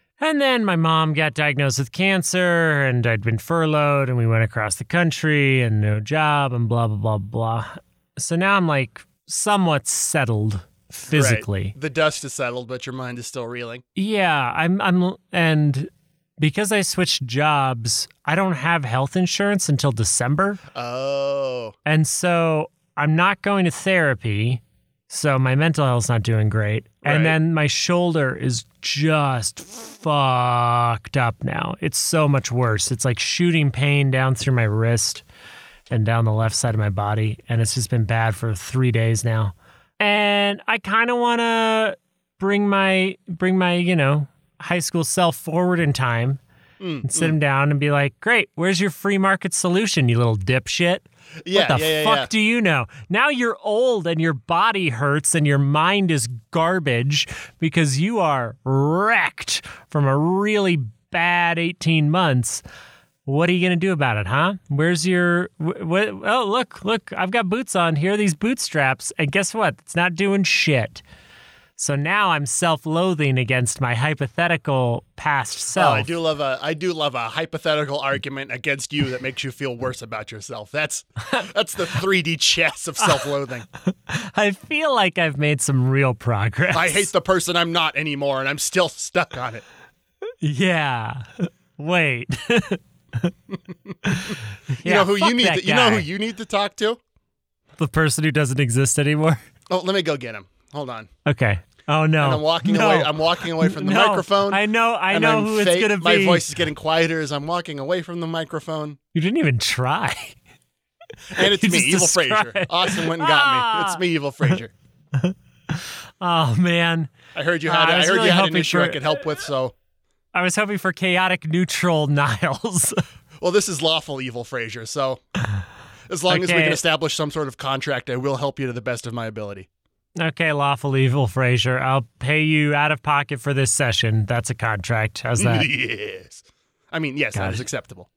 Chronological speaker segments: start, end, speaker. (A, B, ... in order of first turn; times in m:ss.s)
0:00.2-0:11.7 A
0:11.1-0:13.8 B
0:14.0-0:20.6 A
0:20.7-0:21.7 B
0:21.8-0:35.2 A
0:27.0-0:27.4 B
0:35.9-0:46.4 A
0:46.8-0:47.4 B
0:47.0-1:02.6 A
0:51.4-0:52.3 B
1:03.2-1:11.0 A
1:11.8-1:16.1 A
1:15.8-1:23.6 B
1:23.8-1:27.1 A
1:26.7-1:29.6 B
1:30.4-1:33.3 A
1:34.0-1:36.1 A
1:34.8-1:37.0 B
1:37.8-1:39.4 A
1:39.7-1:41.1 B
1:41.2-1:46.4 A
1:42.2-1:49.0 B
1:49.1-1:50.4 A
1:51.3-1:54.0 A
1:51.3-1:54.7 B
1:55.1-1:57.1 A
1:57.3-1:59.7 B
1:57.6-1:59.1 A
2:00.3-2:03.0 A
2:03.4-2:05.2 B
2:06.1-2:09.7 B
2:06.3-2:06.8 A
2:10.2-2:15.7 A
2:15.4-2:18.1 B
2:17.3-2:17.6 A